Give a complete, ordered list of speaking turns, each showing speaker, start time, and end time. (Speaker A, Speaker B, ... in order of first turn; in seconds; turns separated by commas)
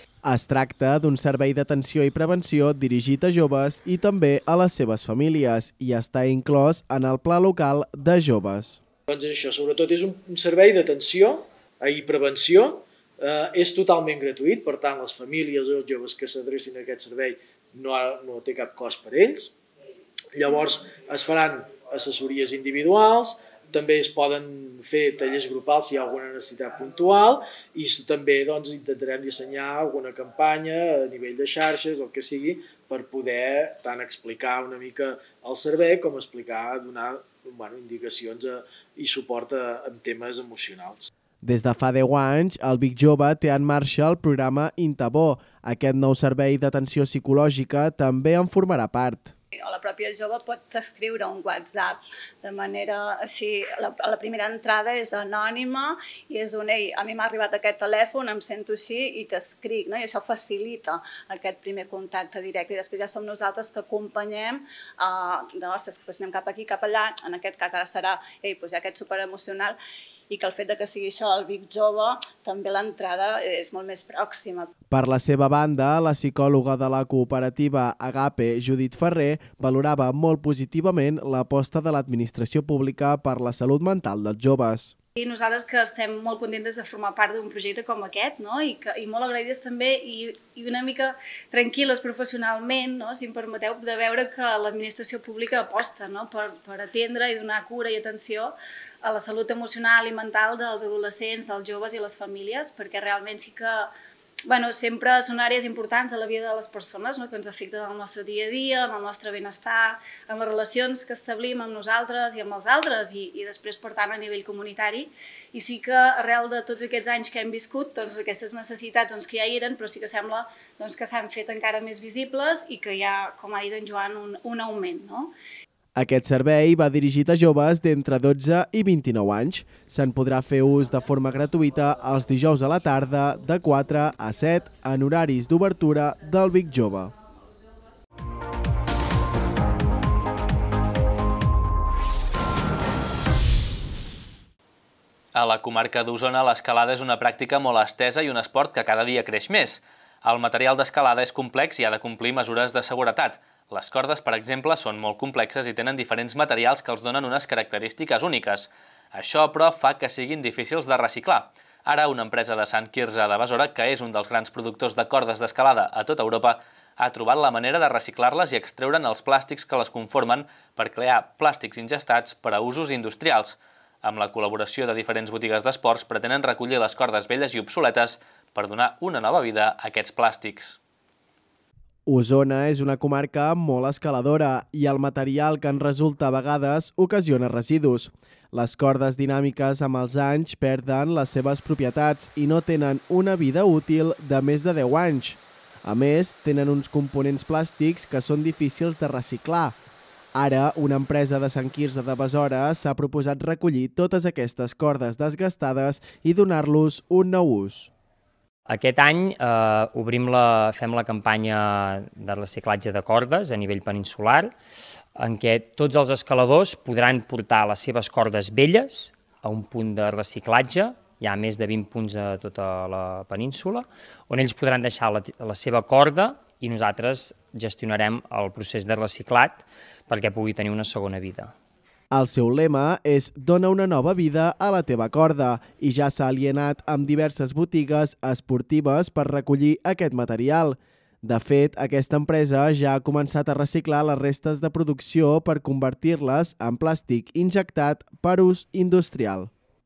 Speaker A: 0.2-8.8, Speaker B: 9.1-19.5, Speaker B: 20.3-41.1, Speaker A: 41.4-49.3, Speaker C: 49.7-69.7, Speaker C: 70.3-74.7, Speaker A: 74.9-84.9, Speaker C: 85.2-103.9, Speaker C: 104.5-125.3, Speaker A: 126.0-137.1, Speaker D: 145.3-180.8, Speaker A: 182.1-199.8, Speaker A: 200.3-207.9, Speaker E: 208.7-214.5, Speaker E: 215.2-231.5, Speaker A: 232.1-249.5